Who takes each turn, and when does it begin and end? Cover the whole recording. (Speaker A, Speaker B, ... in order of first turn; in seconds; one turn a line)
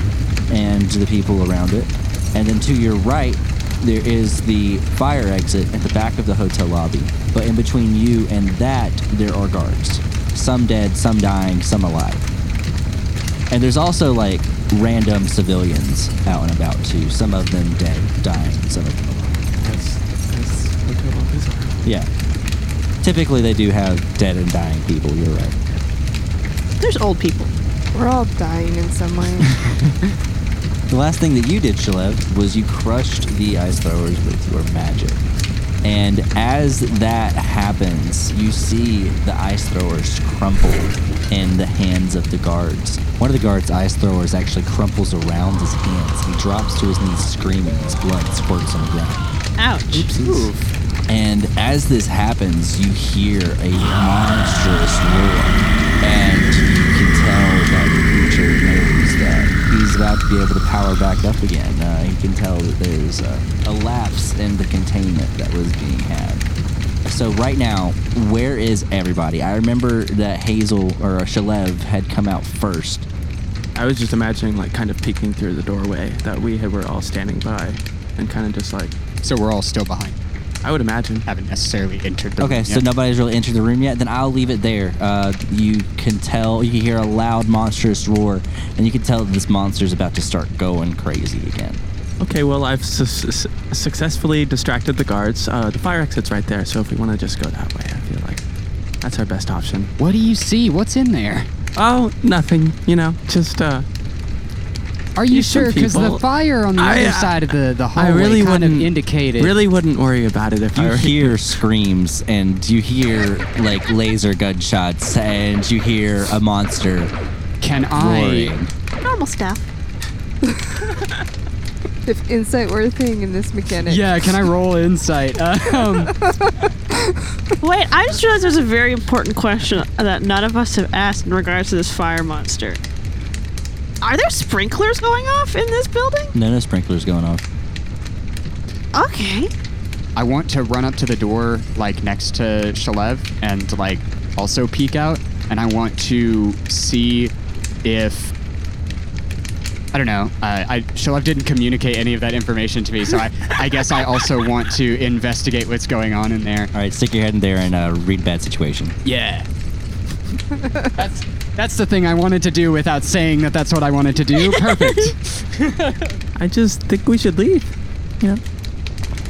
Speaker A: 0.5-12.2
Speaker A: 13.5-19.4
Speaker B: 19.6-21.8
Speaker A: 21.8-22.1
Speaker A: 23.0-25.6
Speaker C: 26.8-27.5
Speaker D: 27.9-29.6
Speaker A: 30.9-35.2
Speaker A: 35.8-49.2
Speaker C: 49.6-50.1
Speaker E: 49.9-50.7
Speaker A: 50.2-50.5
Speaker A: 51.1-66.4
Speaker A: 67.0-73.1
Speaker B: 73.8-79.0
Speaker E: 79.2-80.2
Speaker B: 80.6-81.3
Speaker E: 81.2-82.8
Speaker A: 82.4-91.8
Speaker B: 92.2-98.4
Speaker B: 99.0-99.9
Speaker E: 100.0-101.5
Speaker B: 101.8-103.9
Speaker E: 105.2-109.6
Speaker B: 105.3-106.2
Speaker B: 106.8-111.5
Speaker A: 110.8-117.1
Speaker E: 117.6-118.6
Speaker A: 117.9-118.7
Speaker C: 119.0-119.7
Speaker D: 122.1-124.3
Speaker E: 123.9-126.1
Speaker D: 125.9-127.2
Speaker C: 127.6-132.8
Speaker C: 134.0-136.3
Speaker A: 136.3-137.4
Speaker C: 138.9-139.5
Speaker E: 140.2-148.3
Speaker E: 149.9-156.7
Speaker A: 156.7-159.0
Speaker E: 159.0-159.5
Speaker E: 161.0-166.1
Speaker B: 166.4-167.7